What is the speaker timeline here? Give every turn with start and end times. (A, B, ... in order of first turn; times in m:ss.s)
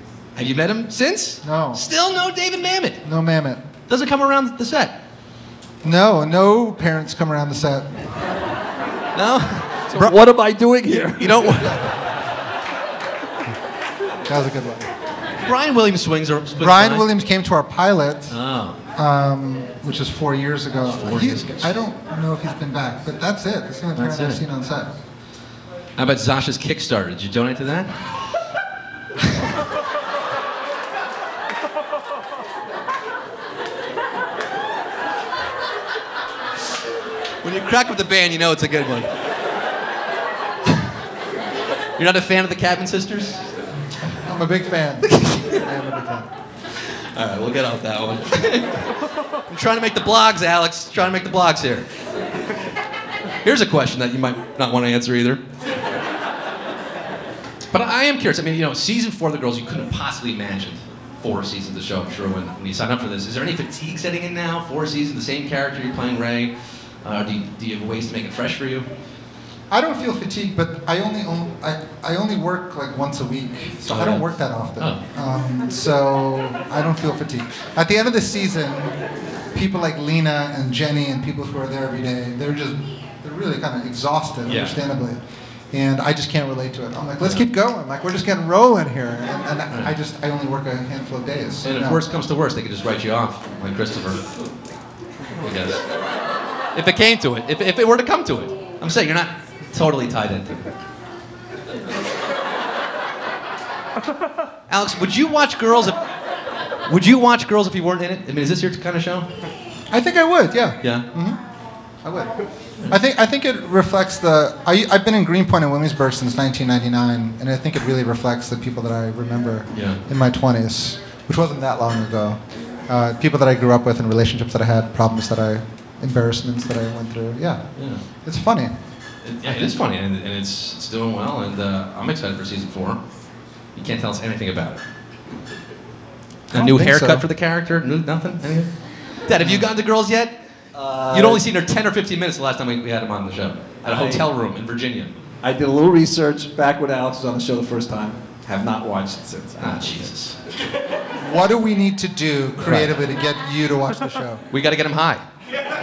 0:00.4-0:03.0 A
0:01.4-0:01.8 B
0:03.0-0:03.7 B
0:03.9-0:05.0 A
0:05.8-0:08.1 B
0:09.1-0:10.2 A
0:09.9-0:11.8 C
0:11.2-0:12.1 A
0:14.3-0:14.9 B
0:15.4-0:17.1 A
0:16.6-0:18.4 B
0:18.3-0:18.8 A
0:19.0-0:25.0 B
0:20.8-0:21.8 A
0:24.0-0:24.4 A
0:26.0-0:28.2 A
0:37.4-0:39.1 A
0:42.0-0:43.6 A
0:44.1-0:46.3 B
0:45.0-0:45.7 A
0:46.7-0:48.9 A
0:49.5-0:51.9 A
0:53.4-0:55.4 A
0:57.7-1:08.9 A
1:09.7-1:32.0 B
1:13.9-1:15.0 A
1:24.5-1:24.8 A
1:27.2-1:27.5 A
1:31.6-1:34.3 A
1:35.4-1:35.8 A
1:36.7-1:40.7 A
1:44.7-1:46.0 A
1:46.8-1:49.3 A
1:49.9-1:51.4 B
1:50.8-1:51.1 A
1:52.0-2:08.9 B
1:59.7-2:00.0 A
2:07.8-2:08.0 A
2:09.2-2:13.0 A
2:09.4-2:09.8 B
2:13.7-2:14.8 A
2:16.5-2:20.4 A
2:16.5-2:17.3 B
2:19.4-2:19.7 B
2:20.7-2:21.4 C
2:21.1-2:25.1 A
2:23.8-2:24.2 C
2:25.4-2:30.1 C
2:29.6-2:30.4 A
2:31.2-2:34.4 B
2:32.6-2:32.9 C
2:34.5-2:35.3 A